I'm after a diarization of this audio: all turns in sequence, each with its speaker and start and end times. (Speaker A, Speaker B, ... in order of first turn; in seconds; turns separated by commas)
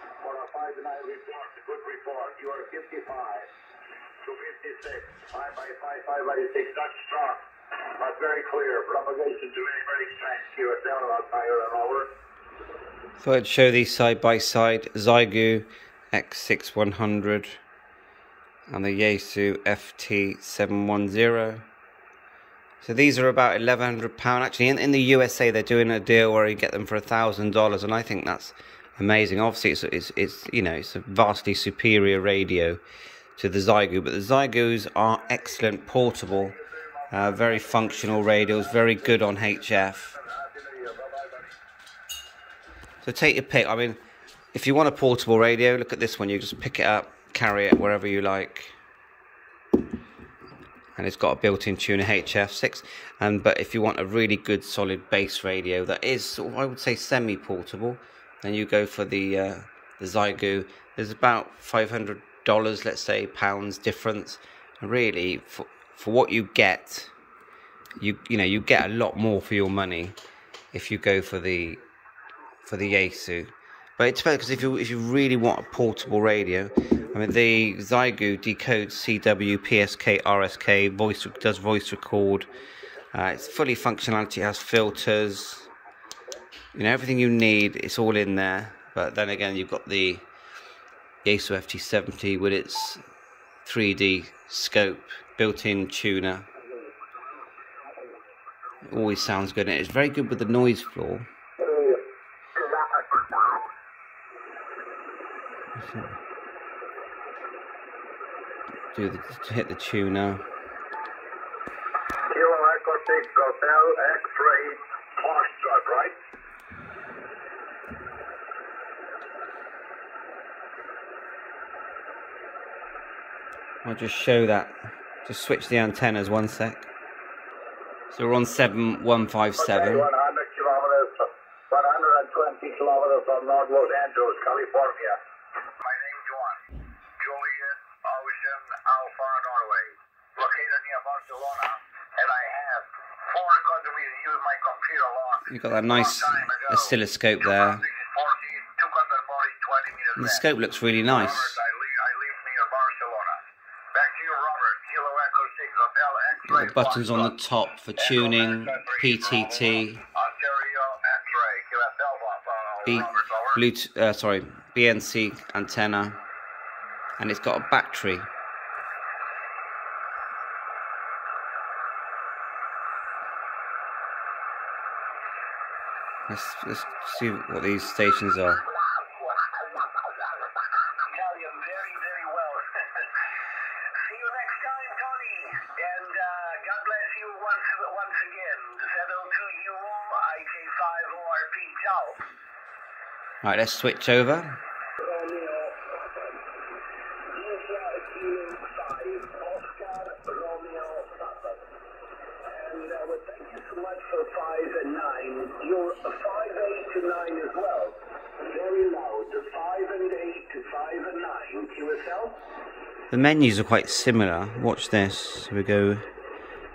Speaker A: 0.2-3.5, Speaker A: 4.2-7.4, Speaker A: 8.0-12.1, Speaker B: 13.2-17.6, Speaker B: 18.7-21.6, Speaker B: 22.8-32.8, Speaker B: 33.4-36.6, Speaker A: 36.3-41.6, Speaker B: 37.1-40.1, Speaker B: 43.0-44.0, Speaker B: 44.5-48.8, Speaker B: 51.0-67.1, Speaker B: 68.0-70.2, Speaker B: 70.7-71.8, Speaker B: 72.7-82.5, Speaker B: 83.1-85.7, Speaker B: 86.7-90.3, Speaker B: 91.2-93.0, Speaker B: 93.6-96.5, Speaker B: 98.9-101.3, Speaker B: 105.8-106.1, Speaker B: 108.9-110.5, Speaker A: 112.3-116.2, Speaker B: 123.8-126.9, Speaker B: 128.1-130.1, Speaker A: 129.6-135.2, Speaker A: 135.8-150.5, Speaker B: 145.5-147.8, Speaker B: 150.2-151.6, Speaker A: 151.1-153.4, Speaker A: 153.9-157.3, Speaker B: 156.5-160.0, Speaker A: 158.0-163.6, Speaker B: 162.8-166.2, Speaker B: 167.2-168.3, Speaker B: 176.3-178.6, Speaker A: 181.0-183.1, Speaker A: 184.0-192.2, Speaker B: 193.4-194.6, Speaker A: 195.0-196.2, Speaker A: 197.3-201.6, Speaker A: 202.5-212.4, Speaker B: 213.1-216.1